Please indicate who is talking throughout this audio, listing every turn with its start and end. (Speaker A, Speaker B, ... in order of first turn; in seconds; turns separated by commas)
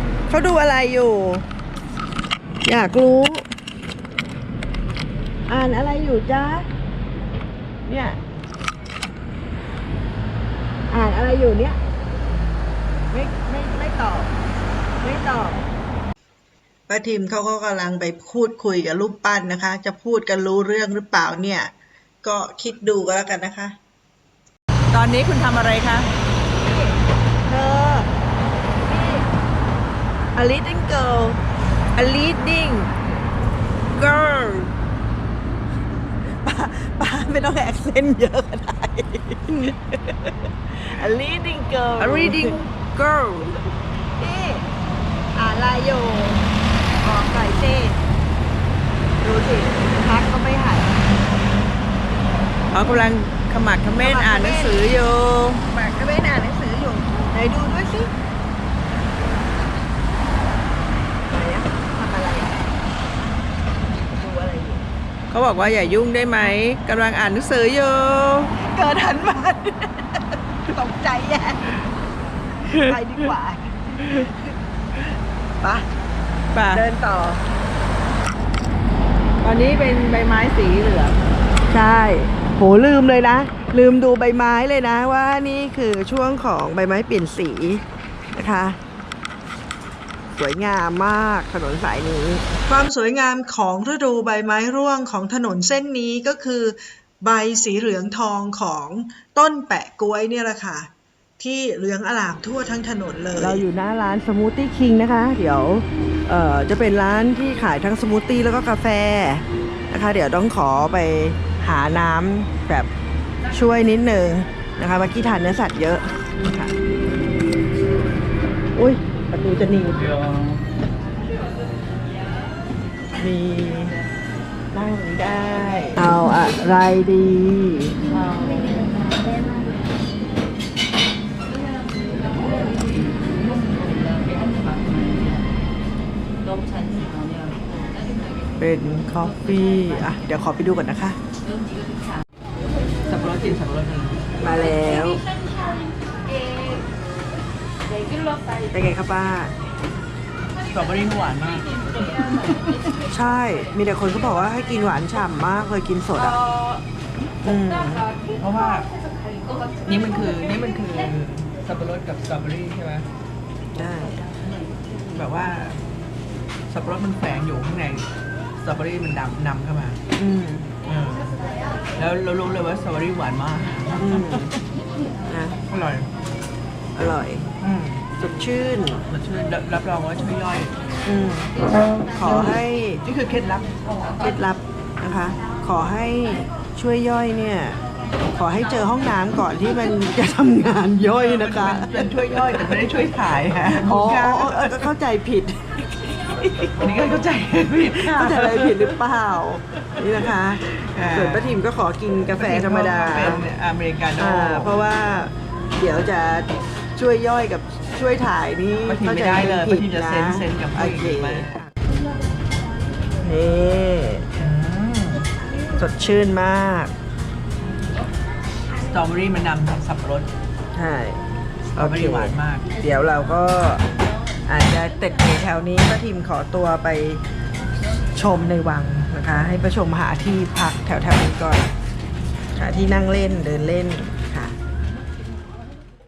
Speaker A: 0.3-1.4, Speaker A: 2.6-3.5, Speaker A: 5.5-6.7, Speaker A: 7.9-8.2, Speaker A: 10.9-11.8, Speaker A: 13.1-14.3, Speaker A: 15.0-15.6, Speaker B: 16.9-21.7, Speaker B: 22.2-23.8, Speaker C: 24.9-26.1, Speaker A: 26.6-27.0, Speaker A: 27.5-28.1, Speaker A: 28.8-29.3, Speaker A: 30.4-31.4, Speaker A: 32.0-32.9, Speaker C: 34.0-34.7, Speaker A: 36.4-42.6, Speaker C: 42.0-43.6, Speaker A: 44.0-44.7, Speaker A: 45.4-46.5, Speaker A: 47.0-48.0, Speaker A: 49.2-51.0, Speaker C: 52.7-55.6, Speaker A: 54.0-54.9, Speaker A: 55.7-58.1, Speaker A: 61.3-62.6, Speaker A: 64.1-64.8, Speaker C: 65.3-68.5, Speaker A: 68.6-71.8, Speaker A: 72.6-74.5, Speaker C: 72.7-73.3, Speaker A: 75.6-75.9, Speaker C: 76.5-76.8, Speaker A: 76.7-77.4, Speaker C: 79.4-81.2, Speaker A: 81.7-87.8, Speaker A: 88.3-88.8, Speaker A: 90.4-92.4, Speaker B: 92.7-103.6, Speaker A: 103.3-112.9, Speaker A: 113.5-116.8, Speaker A: 118.8-120.0, Speaker A: 123.2-124.0, Speaker A: 124.7-128.0, Speaker A: 138.6-141.2, Speaker C: 143.1-144.2, Speaker A: 144.4-145.2, Speaker A: 148.7-149.5, Speaker C: 150.7-151.7, Speaker A: 153.1-156.4, Speaker A: 157.4-158.1, Speaker C: 158.4-158.9, Speaker C: 159.8-163.1, Speaker A: 163.8-164.2, Speaker C: 165.1-165.8, Speaker C: 166.7-168.1, Speaker C: 168.6-170.0, Speaker A: 170.2-170.7, Speaker C: 170.8-171.4, Speaker C: 172.0-174.4, Speaker A: 174.0-174.6, Speaker A: 175.3-175.6, Speaker C: 175.7-176.1, Speaker A: 176.9-177.5, Speaker C: 177.6-178.1, Speaker A: 178.2-179.0, Speaker C: 179.1-180.7, Speaker A: 181.1-181.5, Speaker A: 182.1-183.0, Speaker C: 182.2-183.7, Speaker A: 184.2-187.8, Speaker A: 188.3-192.1, Speaker C: 191.1-194.9, Speaker A: 193.8-196.7, Speaker C: 196.8-199.0, Speaker A: 198.0-200.6, Speaker C: 200.2-201.6, Speaker A: 201.1-203.4, Speaker C: 202.3-204.8, Speaker A: 204.2-211.7, Speaker C: 208.9-211.5, Speaker A: 213.2-214.3, Speaker C: 214.4-215.3, Speaker A: 215.8-216.9, Speaker C: 218.9-220.3, Speaker A: 220.7-221.2, Speaker C: 221.8-222.7, Speaker A: 221.8-223.8, Speaker A: 224.5-227.2, Speaker A: 228.2-231.7, Speaker A: 232.6-234.6